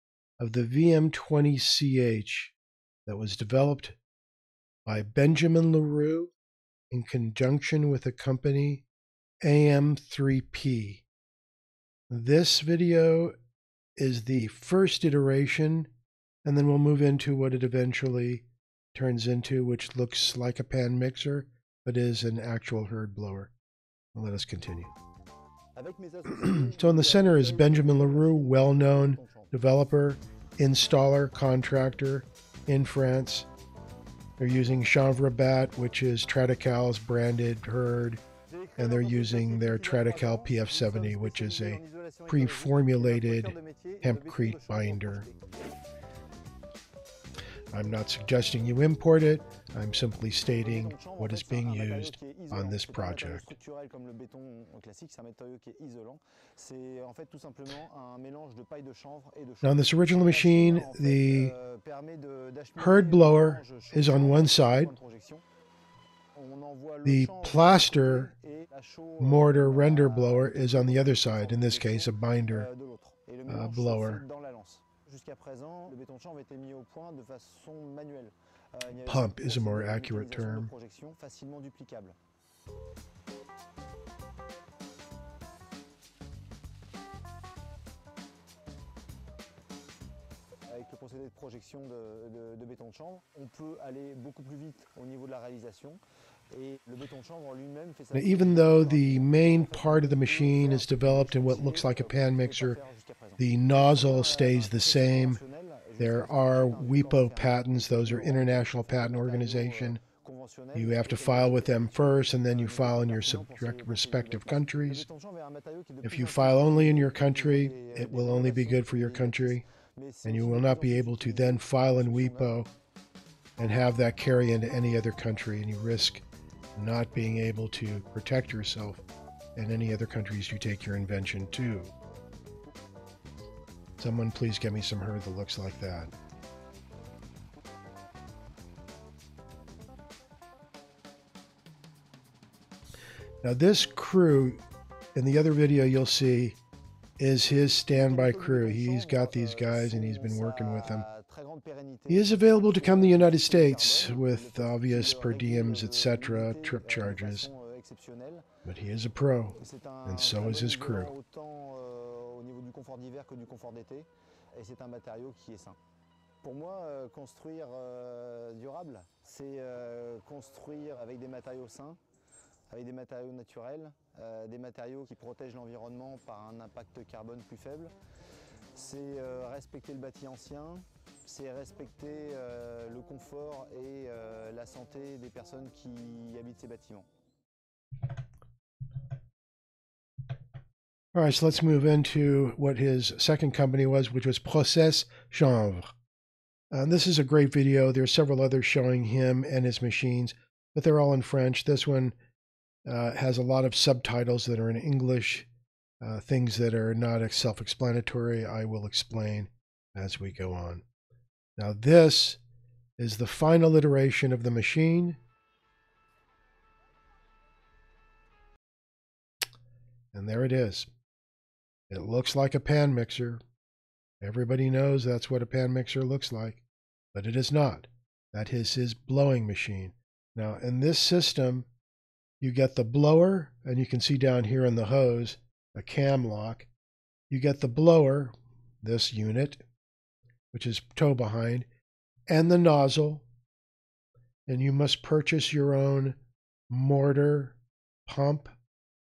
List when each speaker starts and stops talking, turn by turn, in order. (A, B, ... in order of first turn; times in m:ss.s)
0:00.4-0:02.6 A
0:03.1-0:04.0 A
0:04.9-0:06.3 A
0:06.9-0:08.8 A
0:09.4-0:11.0 A
0:12.1-0:13.3 A
0:14.0-0:15.9 A
0:16.4-0:23.5 A
0:24.1-0:24.9 A
0:25.8-0:29.5 B
0:26.4-0:33.5 A
0:34.4-0:38.2 A
0:38.5-0:45.4 B
0:38.8-0:45.3 A
0:47.7-0:53.5 A
0:50.6-1:05.4 B
0:59.6-1:01.5 A
1:02.8-1:05.0 A
1:06.4-1:22.2 B
1:07.0-1:08.3 A
1:09.2-1:12.7 A
1:13.5-1:14.2 A
1:19.1-1:20.7 A
1:30.7-2:02.5 B
1:38.1-1:42.8 A
1:43.4-1:45.4 A
1:46.0-1:50.0 A
1:50.8-1:55.1 A
1:56.0-1:59.6 A
2:00.2-2:02.7 A
2:03.6-2:06.2 A
2:06.8-2:09.0 A
2:09.6-2:11.9 A
2:14.0-2:16.1 A
2:23.4-2:24.6 A
2:25.2-2:26.6 A
2:27.2-2:31.1 A
2:27.9-2:38.5 B
2:32.1-2:37.5 A
2:38.6-2:41.1 A
2:39.6-2:45.8 B
2:46.4-2:52.0 B
2:52.7-2:57.9 B
2:58.7-3:07.1 B
3:11.1-3:15.9 A
3:16.7-3:22.2 A
3:22.9-3:25.5 A
3:26.0-3:30.8 A
3:31.6-3:32.4 A
3:33.0-3:35.2 A
3:40.1-3:40.9 A
3:41.9-3:43.4 A
3:44.2-3:46.6 A
3:47.1-3:51.7 A
3:52.4-3:56.7 A
3:57.3-3:59.6 A
4:00.5-4:01.7 A
4:02.3-4:03.2 A
4:04.5-4:06.2 A
4:06.7-4:08.6 A